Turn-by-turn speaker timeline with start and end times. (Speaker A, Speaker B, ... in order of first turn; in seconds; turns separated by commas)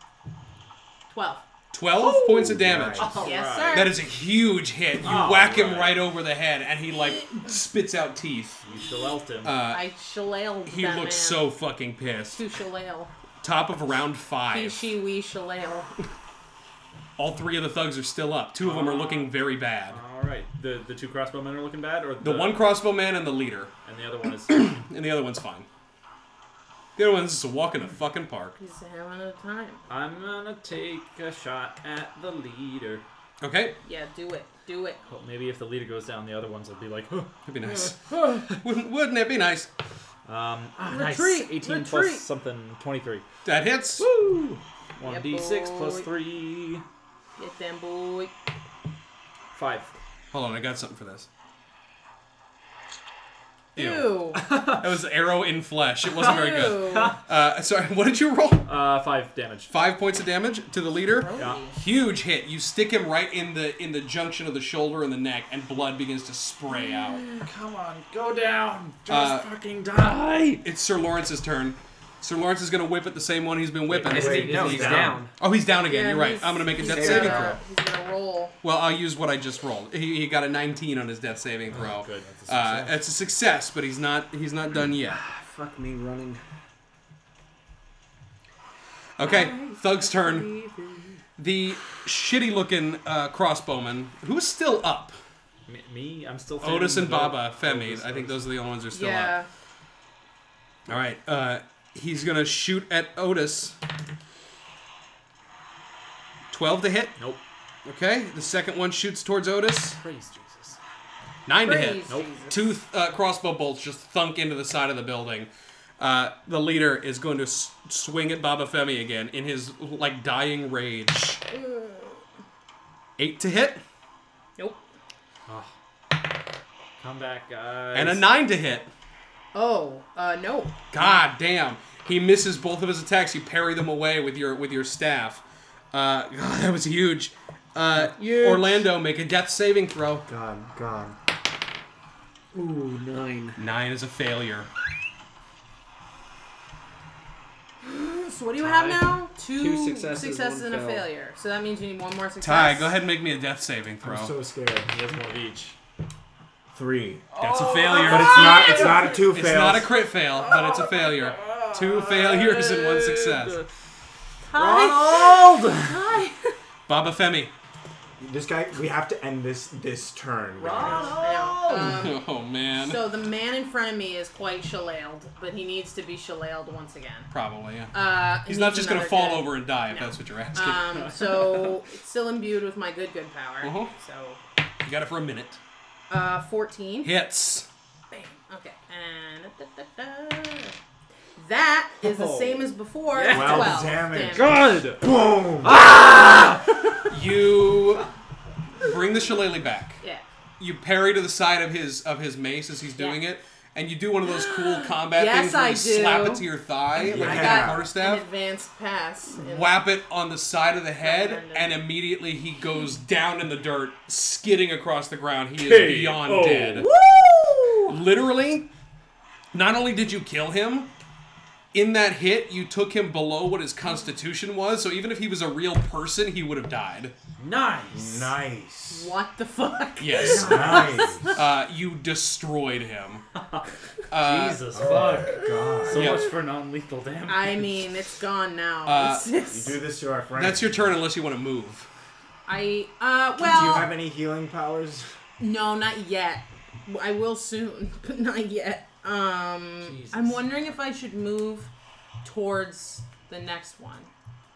Speaker A: 1.1-1.4, Speaker B: 1.7-8.6, Speaker C: 2.0-3.9, Speaker D: 2.5-3.2, Speaker A: 3.2-4.0, Speaker C: 5.0-6.0, Speaker C: 8.6-9.5, Speaker B: 9.4-9.8, Speaker A: 9.7-11.5, Speaker B: 10.7-12.4, Speaker A: 12.3-13.1, Speaker B: 13.4-14.8, Speaker A: 14.5-15.9, Speaker B: 17.2-20.0, Speaker C: 18.6-19.3, Speaker C: 19.9-22.6, Speaker B: 22.2-23.7, Speaker C: 23.8-24.6, Speaker B: 24.5-25.7, Speaker B: 26.9-28.6, Speaker A: 28.6-29.8, Speaker C: 29.9-33.0, Speaker B: 33.4-33.8, Speaker A: 33.8-35.0, Speaker C: 35.1-37.3, Speaker B: 37.5-39.7, Speaker A: 37.6-38.5, Speaker C: 40.2-43.2, Speaker A: 40.9-42.2, Speaker B: 43.4-44.0, Speaker C: 44.0-46.8, Speaker A: 45.0-46.1, Speaker A: 47.4-48.3, Speaker C: 49.5-49.9, Speaker B: 50.3-51.3, Speaker A: 53.8-54.5, Speaker B: 53.8-58.7, Speaker C: 54.3-54.8, Speaker A: 56.1-57.2, Speaker C: 56.2-57.2, Speaker C: 58.6-59.7, Speaker B: 59.7-67.2, Speaker A: 61.0-61.8, Speaker C: 61.4-61.6, Speaker A: 66.8-67.4, Speaker C: 67.4-70.6, Speaker B: 69.1-69.5, Speaker B: 70.6-77.6, Speaker C: 73.9-75.2, Speaker D: 74.0-75.2, Speaker E: 74.0-75.3, Speaker A: 75.8-78.5, Speaker D: 76.8-77.5, Speaker B: 78.6-85.2, Speaker C: 81.7-83.0, Speaker E: 85.1-86.4, Speaker B: 89.2-90.5, Speaker A: 89.2-90.9, Speaker B: 91.4-95.2, Speaker C: 95.7-98.5, Speaker B: 96.6-99.3, Speaker A: 98.9-99.5, Speaker B: 100.9-103.8, Speaker B: 106.5-107.2, Speaker B: 107.8-110.0, Speaker C: 110.0-110.8, Speaker B: 111.5-121.4, Speaker A: 111.6-112.7, Speaker A: 121.5-122.2, Speaker B: 123.2-123.8, Speaker C: 125.5-125.7, Speaker C: 127.0-128.3, Speaker B: 127.9-128.9, Speaker A: 129.5-130.8, Speaker B: 130.9-140.2, Speaker A: 138.2-138.8, Speaker D: 140.2-141.2, Speaker E: 142.5-143.6, Speaker B: 143.6-144.7, Speaker A: 147.8-153.0, Speaker C: 148.6-149.2, Speaker E: 149.5-151.1, Speaker B: 152.4-154.3, Speaker D: 154.0-154.9, Speaker C: 154.9-155.8, Speaker D: 156.7-157.2, Speaker C: 157.3-159.3, Speaker B: 157.4-163.6, Speaker D: 158.0-159.9, Speaker A: 158.1-159.1, Speaker C: 160.3-163.7, Speaker A: 164.5-166.6, Speaker C: 164.5-166.0, Speaker B: 166.9-167.5, Speaker D: 168.2-171.2, Speaker C: 170.6-172.0, Speaker A: 170.8-177.3, Speaker B: 171.7-173.0, Speaker B: 177.3-181.2, Speaker A: 177.9-184.4, Speaker B: 183.6-183.9, Speaker B: 184.8-185.6, Speaker A: 186.1-187.1, Speaker B: 187.0-187.7, Speaker A: 188.1-190.8, Speaker A: 191.3-194.6, Speaker C: 192.0-196.8, Speaker D: 193.3-195.8, Speaker A: 196.7-197.1, Speaker B: 197.1-198.1, Speaker B: 198.8-200.0, Speaker B: 200.6-208.2, Speaker A: 204.2-209.8, Speaker D: 207.0-207.9, Speaker B: 209.3-216.9, Speaker A: 211.0-211.8, Speaker C: 215.6-216.9, Speaker A: 216.8-218.0, Speaker B: 217.9-218.7, Speaker B: 219.5-220.9, Speaker B: 221.7-227.1, Speaker C: 227.4-228.3, Speaker D: 227.9-229.1, Speaker A: 228.9-231.4, Speaker B: 230.0-233.2, Speaker D: 230.2-231.4, Speaker C: 233.3-237.8, Speaker B: 234.1-234.6, Speaker D: 234.7-236.2, Speaker B: 235.9-236.2, Speaker A: 237.2-239.8, Speaker B: 238.8-239.2, Speaker D: 239.5-241.0, Speaker B: 240.4-241.9, Speaker A: 242.5-243.9, Speaker D: 243.4-245.1, Speaker A: 245.4-251.7, Speaker C: 249.8-250.4, Speaker A: 252.2-254.1